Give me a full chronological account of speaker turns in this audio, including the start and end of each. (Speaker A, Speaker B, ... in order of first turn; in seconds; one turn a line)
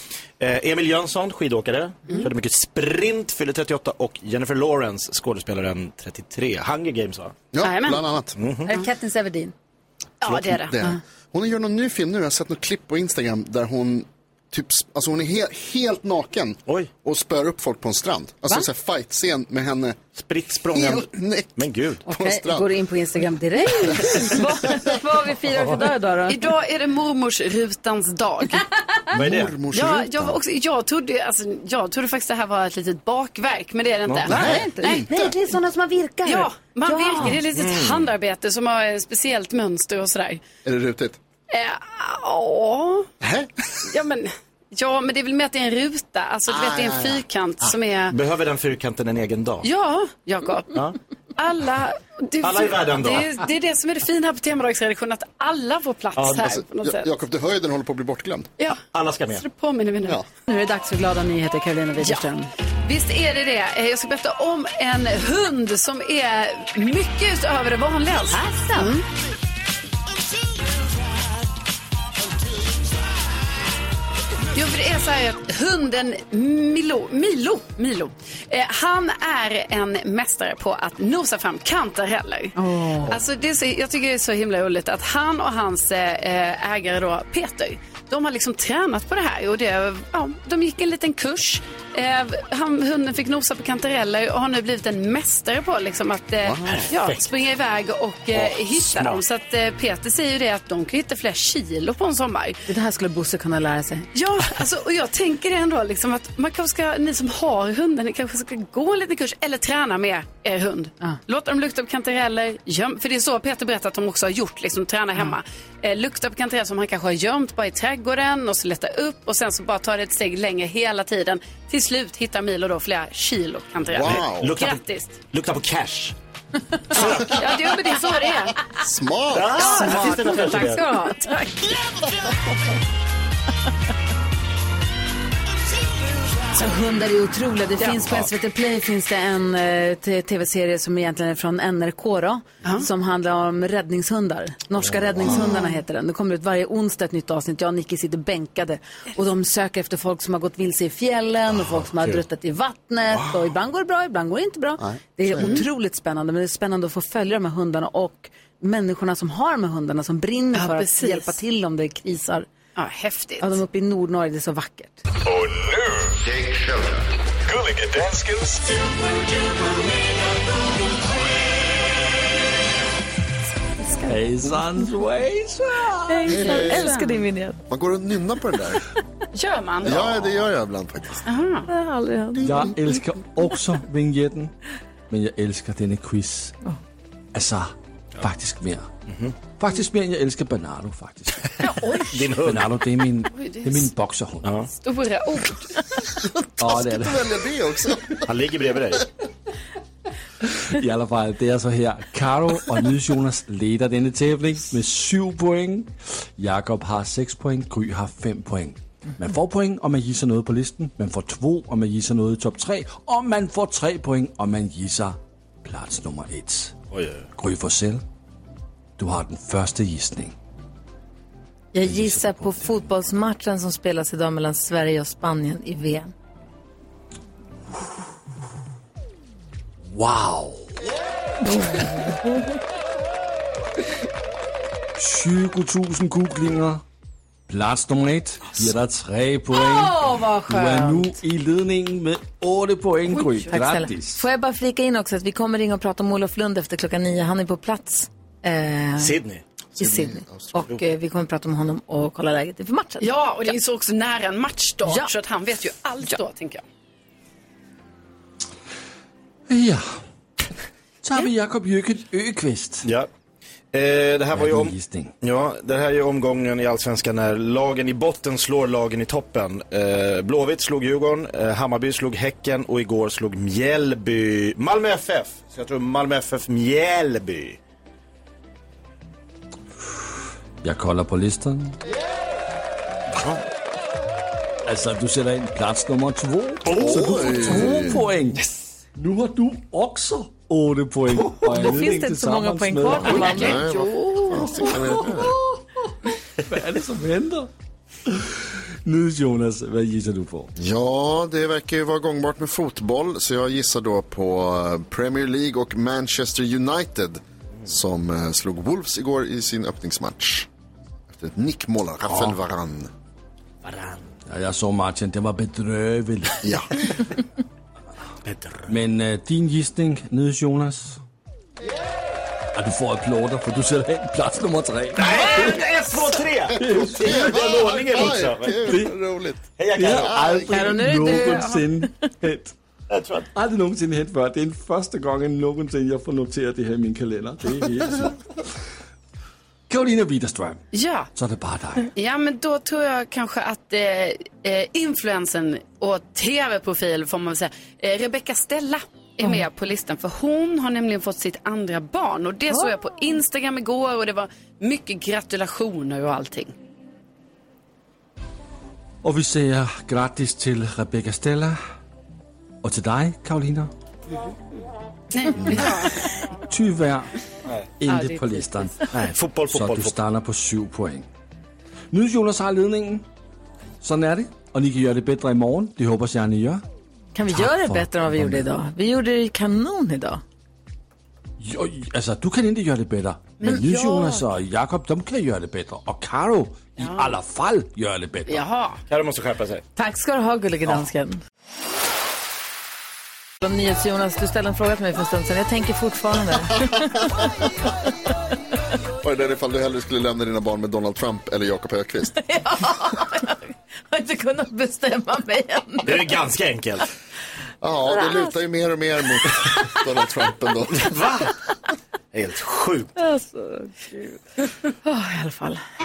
Speaker A: 0.4-7.4
Speaker B: 7.5-8.3
Speaker C: 7.6-8.1
Speaker A: 8.4-8.7
Speaker D: 8.7-9.5
Speaker C: 10.2-10.9
Speaker B: 10.2-20.0
Speaker A: 20.1-21.1
Speaker B: 20.7-22.7
Speaker A: 21.6-22.0
Speaker D: 22.1-26.4
Speaker C: 26.3-28.9
Speaker A: 29.1-29.5
Speaker B: 29.1-30.4
Speaker C: 29.6-35.1
Speaker B: 34.2-35.3
Speaker D: 34.3-37.4
Speaker C: 36.2-40.4
Speaker A: 37.5-38.1
Speaker B: 40.6-41.2
Speaker C: 41.5-43.1
Speaker B: 43.2-43.5
Speaker C: 43.9-48.1
Speaker B: 46.5-47.2
Speaker A: 48.1-49.7
Speaker C: 49.6-57.1
Speaker A: 52.4-53.3
Speaker A: 56.1-56.6
Speaker B: 56.7-58.5
Speaker C: 58.6-60.2
Speaker A: 58.9-59.4
Speaker D: 60.5-62.5
Speaker C: 62.0-62.3
Speaker C: 62.8-69.0
Speaker D: 68.3-69.0
Speaker C: 74.5-102.6
Speaker D: 82.5-83.2
Speaker B: 96.5-96.8
Speaker E: 96.6-97.2
Speaker E: 98.9-99.2
Speaker D: 102.7-104.1
Speaker C: 104.1-125.2
Speaker B: 123.9-124.5
Speaker A: 124.0-126.1
Speaker C: 126.9-128.6
Speaker A: 126.9-127.5
Speaker B: 128.8-129.7
Speaker A: 129.3-130.8
Speaker C: 129.5-131.3
Speaker D: 129.6-131.7
Speaker D: 136.5-162.5
Speaker B: 145.2-145.5
Speaker C: 145.3-145.6
Speaker B: 154.8-155.6
Speaker C: 155.3-155.7
Speaker C: 160.5-161.3
Speaker C: 162.8-163.6
Speaker D: 163.4-165.0
Speaker E: 168.0-168.6
Speaker D: 173.8-174.2
Speaker F: 174.0-176.3
Speaker D: 176.1-177.6
Speaker B: 176.2-176.9
Speaker C: 176.3-177.2
Speaker B: 177.7-178.8
Speaker C: 179.3-180.3
Speaker B: 179.8-181.3
Speaker C: 181.2-181.7
Speaker D: 181.7-183.0
Speaker F: 182.4-184.5
Speaker F: 185.1-186.6
Speaker F: 187.3-188.9
Speaker F: 189.4-191.7
Speaker C: 191.6-192.2
Speaker A: 192.1-192.7
Speaker F: 192.3-194.6
Speaker C: 193.3-193.9
Speaker C: 194.7-196.1
Speaker F: 196.6-197.3
Speaker B: 196.6-198.2
Speaker A: 198.2-199.1
Speaker F: 200.7-216.7
Speaker A: 216.9-217.2
Speaker F: 217.3-218.0
Speaker F: 219.0-220.3
Speaker D: 221.7-226.1
Speaker F: 221.8-222.9
Speaker F: 229.9-230.7
Speaker D: 231.5-232.1
Speaker F: 235.0-236.8
Speaker F: 237.5-244.3
Speaker D: 239.5-241.2
Speaker D: 243.1-249.2
Speaker A: 249.0-249.4
Speaker B: 249.7-250.7
Speaker D: 249.8-253.1
Speaker C: 253.0-256.6
Speaker D: 254.8-255.1
Speaker F: 259.5-260.0
Speaker F: 261.0-262.9
Speaker A: 262.8-263.1
Speaker A: 263.7-277.6
Speaker F: 264.3-265.1
Speaker F: 280.6-281.8
Speaker F: 284.6-293.6
Speaker B: 286.7-288.0
Speaker D: 291.5-293.6
Speaker C: 292.9-294.9
Speaker B: 293.3-295.3
Speaker F: 294.6-295.9
Speaker F: 296.4-297.5
Speaker F: 298.1-300.5
Speaker B: 300.6-310.5
Speaker B: 311.1-312.9
Speaker E: 312.1-312.4
Speaker E: 313.6-314.1
Speaker F: 314.3-316.5
Speaker B: 316.4-316.8
Speaker E: 318.2-318.7
Speaker F: 318.7-321.0
Speaker F: 322.5-325.5
Speaker A: 324.9-328.6
Speaker F: 326.6-327.4
Speaker B: 326.6-330.8
Speaker F: 327.9-328.9
Speaker A: 329.6-330.4
Speaker F: 329.7-332.5
Speaker D: 330.5-331.9
Speaker A: 332.9-333.3
Speaker F: 333.3-338.1
Speaker F: 339.7-340.6
Speaker C: 340.7-341.1
Speaker F: 341.1-341.9
Speaker C: 341.9-356.5
Speaker F: 359.0-361.6
Speaker F: 362.6-363.7
Speaker C: 365.1-366.1
Speaker F: 365.5-365.8
Speaker F: 366.4-367.1
Speaker F: 367.8-371.1
Speaker C: 367.9-368.7
Speaker A: 368.9-369.9
Speaker F: 371.9-373.0
Speaker F: 373.8-376.6
Speaker D: 377.1-380.2
Speaker F: 377.3-378.5
Speaker F: 381.4-388.4
Speaker C: 383.4-384.2
Speaker C: 386.8-387.1
Speaker C: 388.2-388.8
Speaker A: 388.9-389.6
Speaker D: 389.8-391.2
Speaker D: 393.4-397.2
Speaker B: 399.0-402.1
Speaker D: 402.1-406.1
Speaker A: 405.8-406.8
Speaker B: 407.6-410.9
Speaker D: 407.9-408.4
Speaker A: 410.8-411.3
Speaker A: 412.1-412.9
Speaker D: 413.0-414.2
Speaker D: 414.8-415.6